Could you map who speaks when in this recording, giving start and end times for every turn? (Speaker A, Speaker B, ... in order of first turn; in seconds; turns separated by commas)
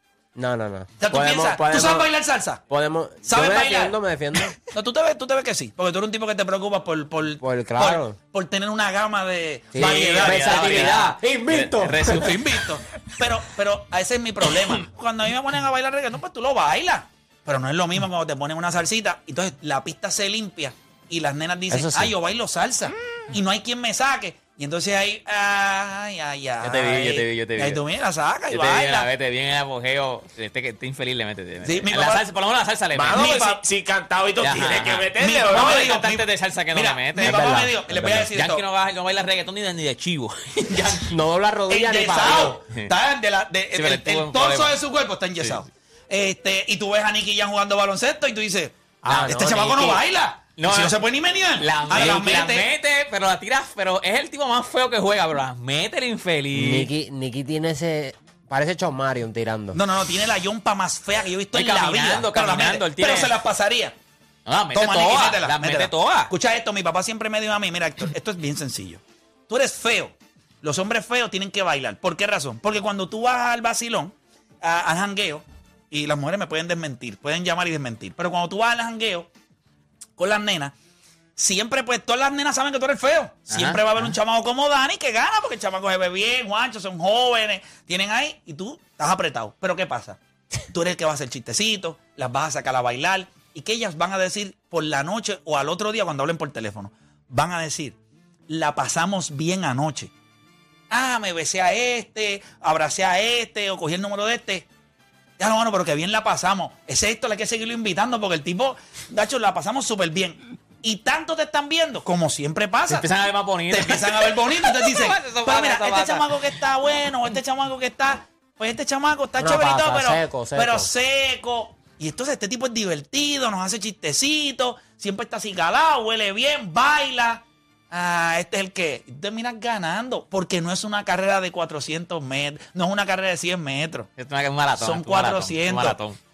Speaker A: 0.3-2.1, Speaker B: 1.0-2.6, Speaker A: 2.7-4.5, Speaker B: 3.2-3.9, Speaker B: 4.7-11.1, Speaker A: 7.4-8.2, Speaker A: 9.7-12.2, Speaker C: 9.8-12.6, Speaker B: 12.1-29.1, Speaker A: 21.7-22.1, Speaker C: 26.6-27.8, Speaker C: 28.5-33.3, Speaker B: 31.6-32.2, Speaker D: 32.9-35.9, Speaker B: 33.1-33.6, Speaker C: 34.4-41.1, Speaker B: 35.1-38.6, Speaker A: 37.2-38.3, Speaker A: 41.1-42.6, Speaker B: 41.7-52.7, Speaker C: 43.7-44.7, Speaker A: 49.0-49.6, Speaker C: 49.1-50.0, Speaker C: 50.6-51.0, Speaker C: 51.6-56.9, Speaker A: 56.5-59.8, Speaker B: 59.7-63.9, Speaker C: 61.5-63.3, Speaker C: 64.5-66.3, Speaker B: 64.7-79.3, Speaker B: 80.2-80.7, Speaker B: 81.3-98.0, Speaker C: 83.5-84.1, Speaker B: 98.5-100.1, Speaker B: 100.9-104.7, Speaker B: 105.4-113.1, Speaker C: 112.9-116.4, Speaker B: 113.7-134.1, Speaker A: 119.4-120.9, Speaker C: 134.2-136.2, Speaker B: 134.8-136.0